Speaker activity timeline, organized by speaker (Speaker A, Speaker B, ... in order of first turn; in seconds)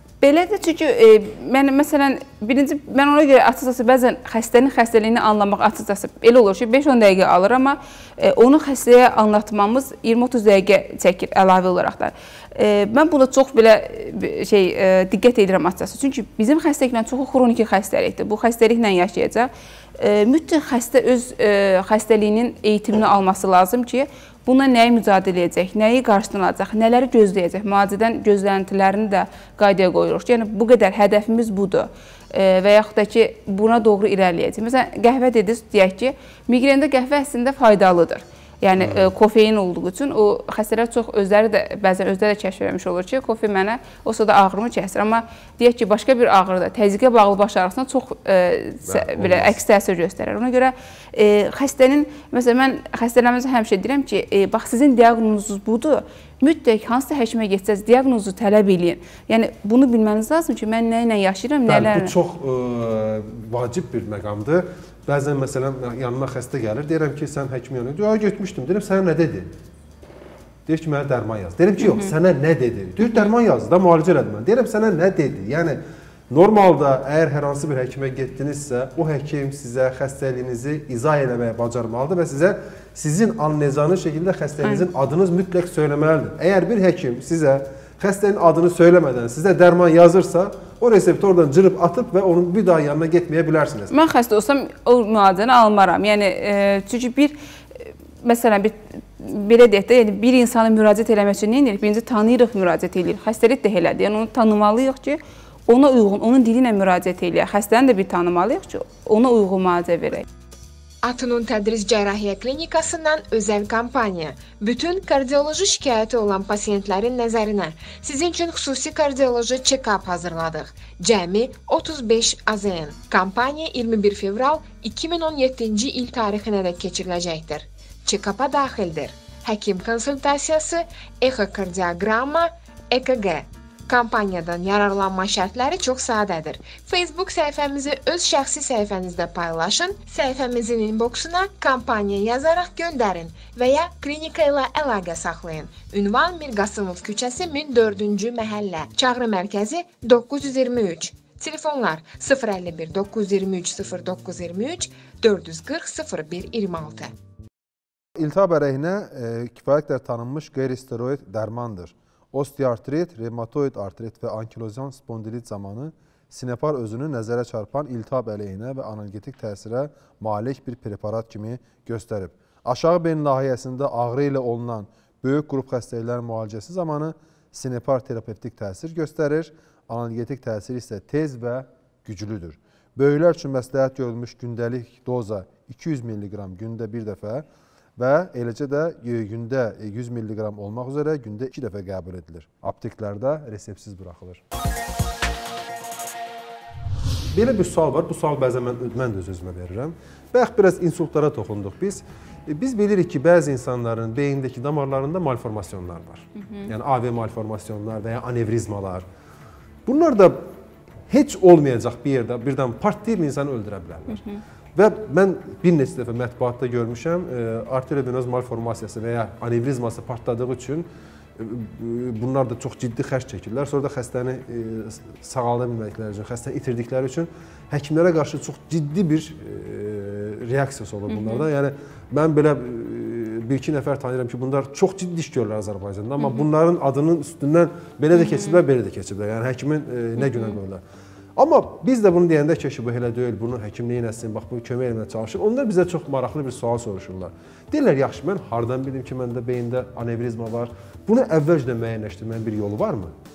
Speaker A: 0.2-62.1, 71.8-72.1, 93.9-97.3, 98.2-110.3, 206.4-206.7, 214.1-214.4, 231.1-231.4, 236.2-236.4, 238.2-238.6, 240.2-240.6
Speaker B: 38.8-39.1, 48.9-49.6, 61.7-69.5, 70.7-75.8, 76.3-93.9, 158.2-187.5, 188.0-194.4, 197.3-209.1, 209.9-210.4, 211.1-214.2, 214.8-220.9, 221.4-240.8, 241.4-253.1
Speaker C: 111.0-157.1